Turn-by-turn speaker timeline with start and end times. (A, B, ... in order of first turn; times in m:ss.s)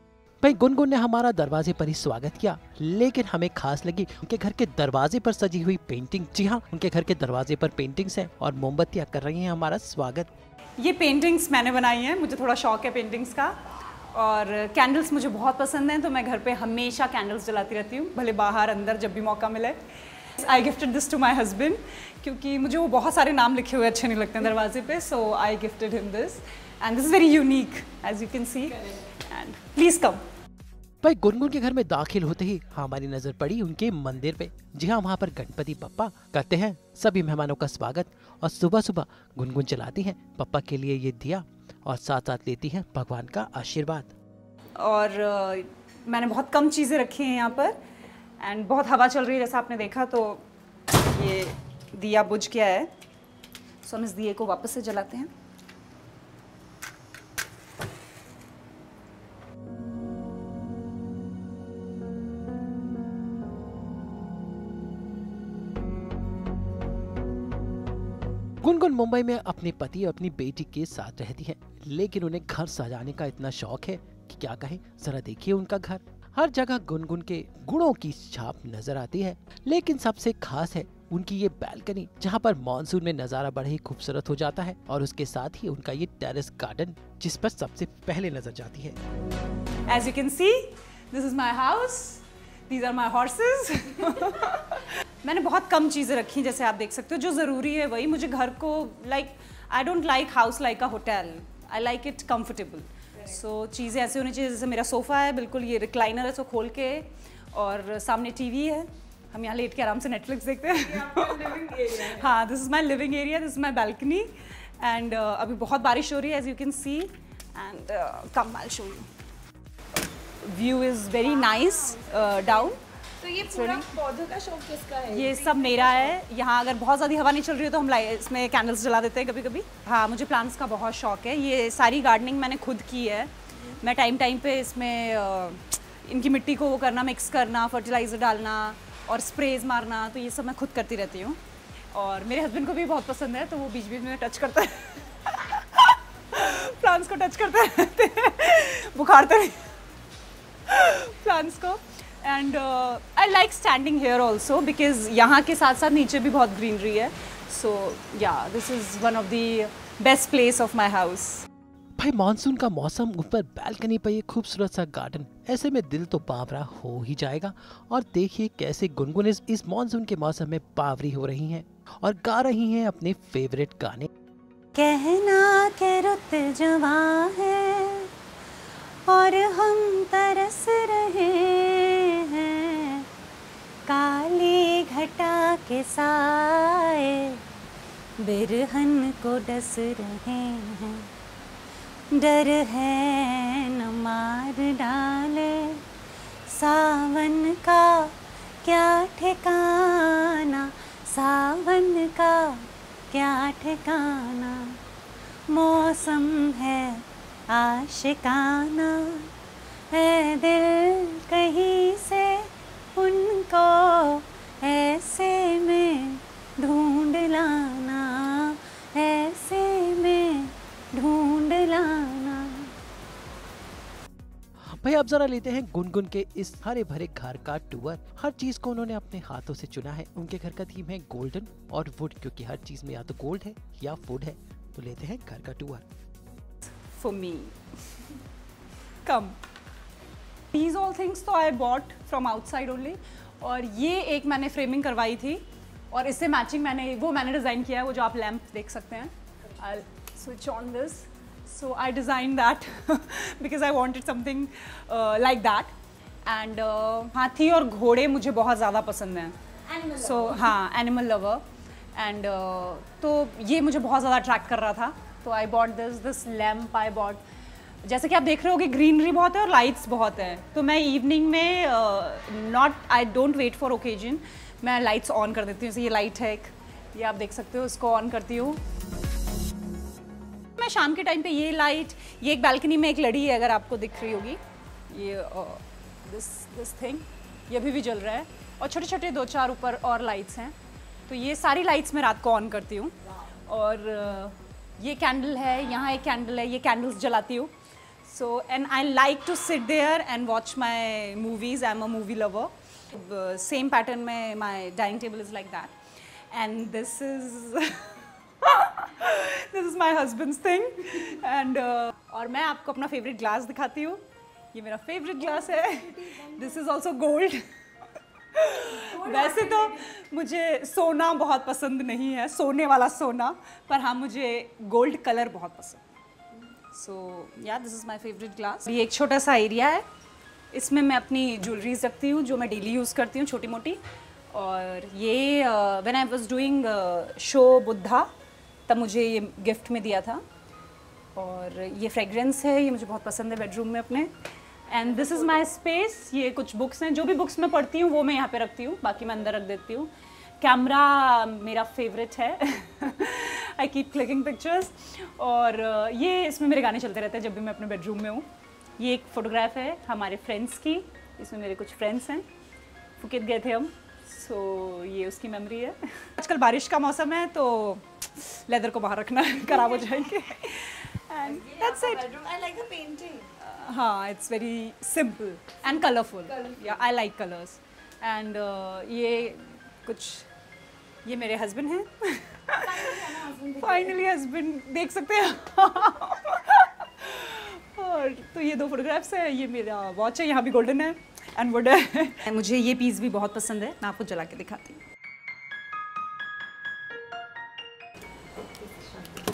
0:00.4-0:10.3 A
0:10.8-0:30.2 B
0:31.0-0:44.1 A
0:44.8-0:47.8 B
0:48.4-0:52.9 B
0:53.8-0:55.3 B
1:08.6-1:29.0 A
1:29.9-1:59.1 B
2:00.4-2:02.8 B
2:01.9-2:02.4 C
2:03.2-2:06.0 C
2:03.4-2:03.9 B
2:05.1-2:21.4 B
2:21.9-2:29.7 B
2:30.6-2:41.5 B
2:42.0-2:54.1 A
2:54.7-2:58.1 B
2:59.0-3:03.1 B
3:03.8-3:07.4 B
3:08.2-3:11.1 B
3:12.1-3:15.8 B
3:16.4-3:24.8 B
3:25.5-3:29.3 B
3:29.9-3:42.7 B
3:44.7-3:55.8 A
3:56.9-3:58.0 B
3:59.0-3:59.4 B
4:00.5-4:15.7 B
4:16.2-4:21.4 B
4:21.9-4:27.2 B
4:27.8-4:38.6 B
4:40.6-4:50.5 B
4:51.1-4:52.9 B
4:53.5-4:57.5 B
4:58.0-5:05.7 B
5:06.3-5:14.0 B
5:14.5-5:17.4 B
5:18.3-5:25.8 B
5:26.7-5:29.8 B
5:30.5-5:33.8 B
5:34.3-5:38.1 B
5:38.7-5:40.2 B
5:41.1-5:44.1 B
5:44.7-5:58.3 B
5:58.8-6:02.3 B
6:03.0-6:12.1 B
6:11.2-6:13.3 C
6:13.4-6:20.3 B
6:21.0-6:34.8 B
6:22.6-6:23.8 C
6:38.8-6:39.1 B